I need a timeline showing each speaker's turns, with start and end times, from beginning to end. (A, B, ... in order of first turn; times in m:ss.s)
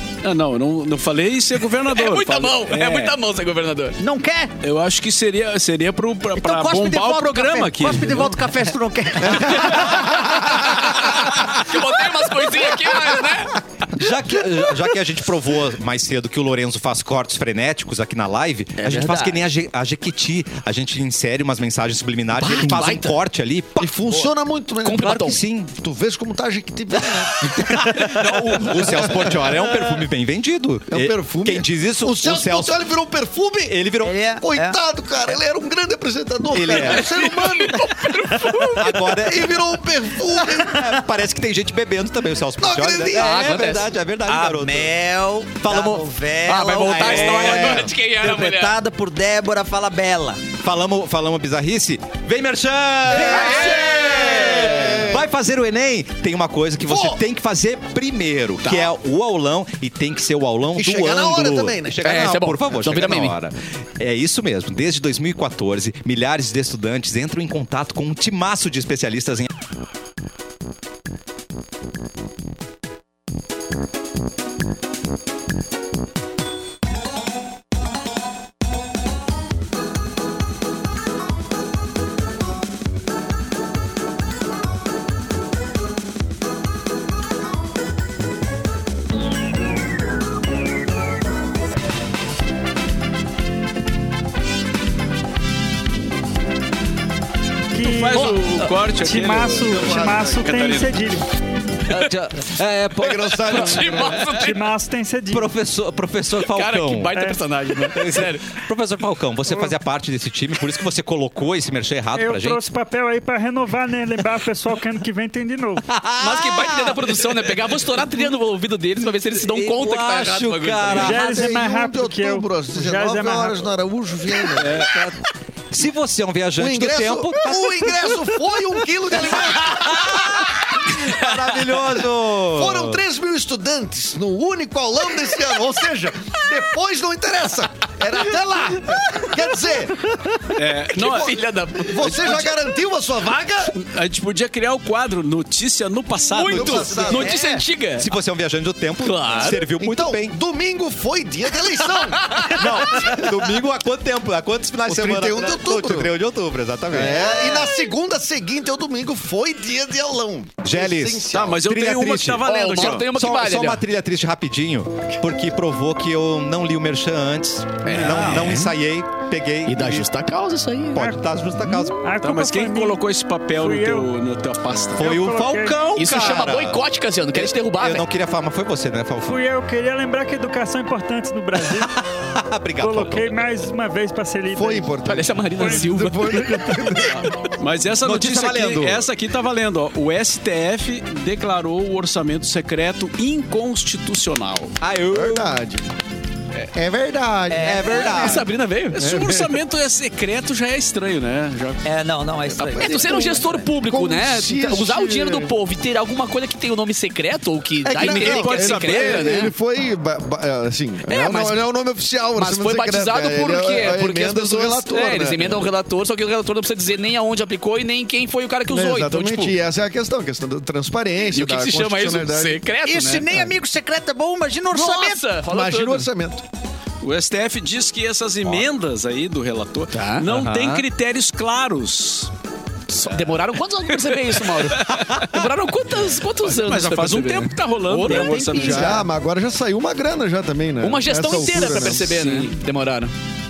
0:00.2-0:03.2 A
0:01.9-0:04.0 B
0:04.0-0:04.5 C
0:04.6-0:08.4 A
0:06.3-0:10.2 C
0:09.8-0:13.6 B
0:13.9-0:24.0 D
0:18.8-0:19.4 B
0:22.4-0:23.1 B
0:23.8-0:29.7 E
0:24.8-0:25.4 B
0:25.0-0:25.7 D
0:27.5-0:32.8 D
0:30.9-0:37.9 E
0:33.7-0:34.2 D
0:34.0-0:34.8 C
0:36.5-0:37.1 D
0:36.7-0:39.0 B
0:38.8-0:39.7 D
0:39.2-0:40.8 E
0:40.5-0:40.9 C
0:40.7-0:44.9 D
0:42.6-0:43.6 E
0:43.1-0:43.9 B
0:44.2-0:50.4 C
0:45.6-0:46.1 D
0:46.5-0:48.7 B
0:46.7-0:47.9 D
0:50.6-1:09.5 D
0:53.1-0:55.3 E
0:53.2-0:53.7 C
0:53.2-0:54.0 B
0:56.8-0:57.2 E
1:00.8-1:02.1 E
1:02.0-1:03.3 B
1:37.7-1:41.3 F
1:37.8-1:41.0 A
1:39.7-1:40.3 E
1:41.9-1:44.0 D
1:43.0-1:44.3 E
1:43.3-1:44.7 B
1:44.3-1:45.5 F
1:45.3-1:47.1 D
1:46.4-1:48.5 B
1:47.1-1:47.4 F
1:47.9-1:52.6 D
1:52.1-1:55.8 F
1:55.8-1:57.8 D
1:56.2-2:01.2 B
1:59.3-2:01.2 D
2:01.0-2:03.7 F
2:01.1-2:04.9 E
2:04.6-2:04.9 A
2:04.6-2:05.2 D
2:05.7-2:08.3 D
2:06.6-2:10.4 E
2:09.2-2:13.0 D
2:12.3-2:20.1 E
2:20.5-2:21.4 A
2:20.9-2:22.4 B
2:21.0-2:23.7 E
2:23.7-2:27.0 A
2:26.3-2:28.1 B
2:26.5-2:27.4 E
2:27.0-2:27.6 C
2:28.0-2:30.3 D
2:29.0-2:29.6 B
2:29.5-2:33.2 E
2:32.1-2:32.7 B
2:32.5-2:37.6 D
2:34.8-2:36.1 E
2:36.9-2:41.6 E
2:40.6-2:50.1 D
2:41.3-2:43.1 A
2:42.4-2:43.8 B
2:47.8-2:48.7 B
2:48.0-2:48.6 A
2:49.6-2:51.1 B
2:50.9-2:52.0 D
2:51.0-2:51.2 F
2:51.8-2:54.1 F
2:52.2-2:55.1 A
2:55.0-2:55.9 F
2:55.0-2:56.8 D
2:55.9-2:58.0 B
2:57.3-2:59.4 D
2:59.2-3:01.9 F
3:01.7-3:03.4 D
3:02.8-3:05.0 F
3:04.5-3:07.3 E
3:05.0-3:06.9 B
3:05.6-3:05.9 F
3:07.6-3:14.8 A
3:08.0-3:09.1 D
3:14.8-3:15.5 D
3:15.1-3:15.8 E
3:16.7-3:18.3 E
3:17.5-3:18.4 C
3:17.6-3:18.5 D
3:18.0-3:19.0 B
3:18.4-3:21.8 A
3:19.0-3:19.6 E
3:21.8-3:23.4 C
3:22.6-3:23.2 A
3:22.8-3:29.5 B
3:22.9-3:25.5 E
3:27.8-3:35.7 E
3:27.9-3:29.4 A
3:31.1-3:31.6 B
3:32.4-3:39.5 B
3:38.7-3:42.6 E
3:41.3-3:43.4 B
3:42.8-3:45.2 C
3:44.7-3:46.1 B
3:45.4-3:46.4 E
3:47.0-3:52.3 A
3:49.9-3:50.3 B
3:50.3-3:50.8 D
3:52.9-3:59.0 B
3:53.9-3:55.0 A
3:56.4-3:59.0 A
3:58.5-4:02.2 E
4:00.8-4:03.1 B
4:01.3-4:02.5 A